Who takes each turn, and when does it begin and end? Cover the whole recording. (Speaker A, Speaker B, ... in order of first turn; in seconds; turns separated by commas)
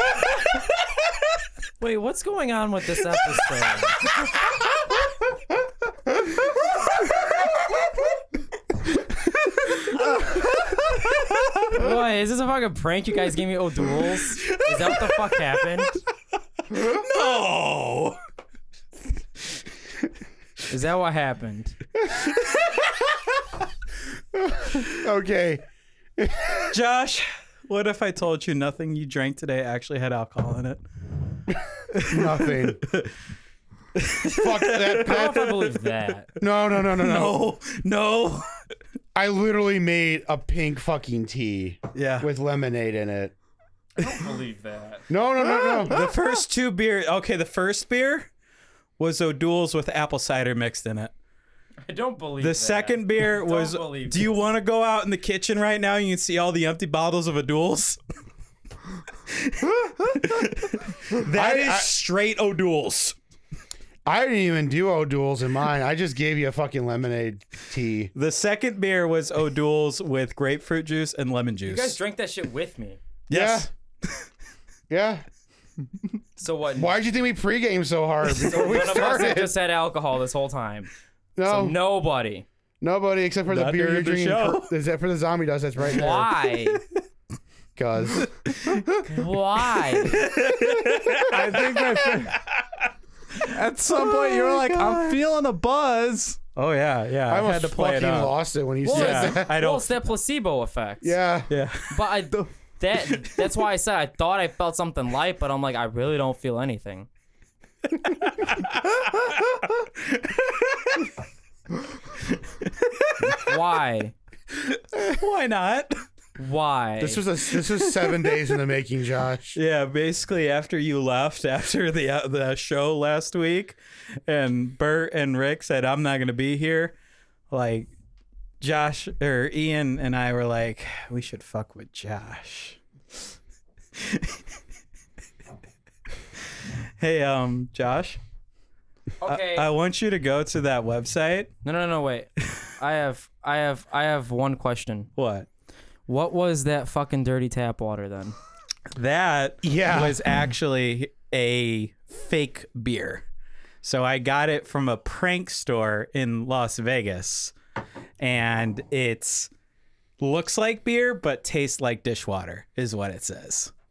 Speaker A: 1.8-4.0, Speaker A: 11.7-16.0, Speaker B: 14.4-15.1, Speaker B: 16.7-18.2, Speaker A: 20.7-21.8, Speaker C: 24.3-25.6, Speaker C: 26.2-26.7, Speaker B: 26.7-30.8, Speaker B: 31.9-33.1, Speaker C: 32.1-32.8, Speaker B: 34.0-35.6, Speaker C: 34.2-35.4, Speaker A: 35.0-36.3, Speaker C: 36.4-37.4, Speaker B: 36.9-38.5, Speaker C: 39.1-43.3, Speaker B: 41.9-42.3, Speaker A: 44.0-45.0, Speaker C: 45.1-46.1, Speaker B: 45.6-48.3, Speaker B: 49.0-51.1, Speaker A: 51.8-54.4, Speaker B: 52.4-58.0, Speaker B: 59.3-63.2, Speaker C: 61.3-61.9, Speaker C: 64.0-68.1, Speaker B: 68.2-72.0, Speaker A: 71.7-73.0, Speaker B: 73.3-73.7, Speaker C: 73.3-73.7, Speaker C: 74.9-75.2, Speaker A: 76.4-76.9, Speaker C: 76.8-79.6, Speaker A: 78.3-80.9, Speaker C: 81.4-81.8, Speaker A: 81.5-82.5, Speaker C: 82.8-86.3, Speaker B: 83.5-84.7, Speaker A: 85.8-86.8, Speaker C: 87.8-88.3, Speaker B: 88.2-89.0, Speaker A: 89.1-90.3, Speaker B: 90.0-92.9, Speaker D: 91.2-92.4, Speaker B: 93.4-95.2, Speaker D: 93.5-96.4, Speaker B: 96.6-100.0, Speaker C: 97.3-99.6, Speaker A: 98.8-101.2, Speaker C: 101.0-101.5, Speaker B: 101.5-102.0, Speaker A: 101.9-107.1, Speaker B: 108.0-111.1, Speaker B: 112.4-113.5, Speaker A: 113.3-114.1, Speaker B: 114.7-116.0, Speaker A: 116.4-117.2, Speaker C: 117.0-119.6, Speaker B: 119.5-127.0, Speaker B: 127.5-127.9, Speaker B: 128.6-132.8, Speaker B: 134.0-134.4, Speaker B: 137.0-138.2, Speaker A: 139.2-139.7, Speaker B: 139.3-141.5, Speaker A: 141.7-145.1, Speaker B: 145.2-145.5, Speaker A: 146.1-148.4, Speaker B: 148.9-153.2, Speaker C: 149.6-150.2, Speaker B: 153.8-157.5, Speaker B: 158.2-159.5, Speaker B: 160.2-163.7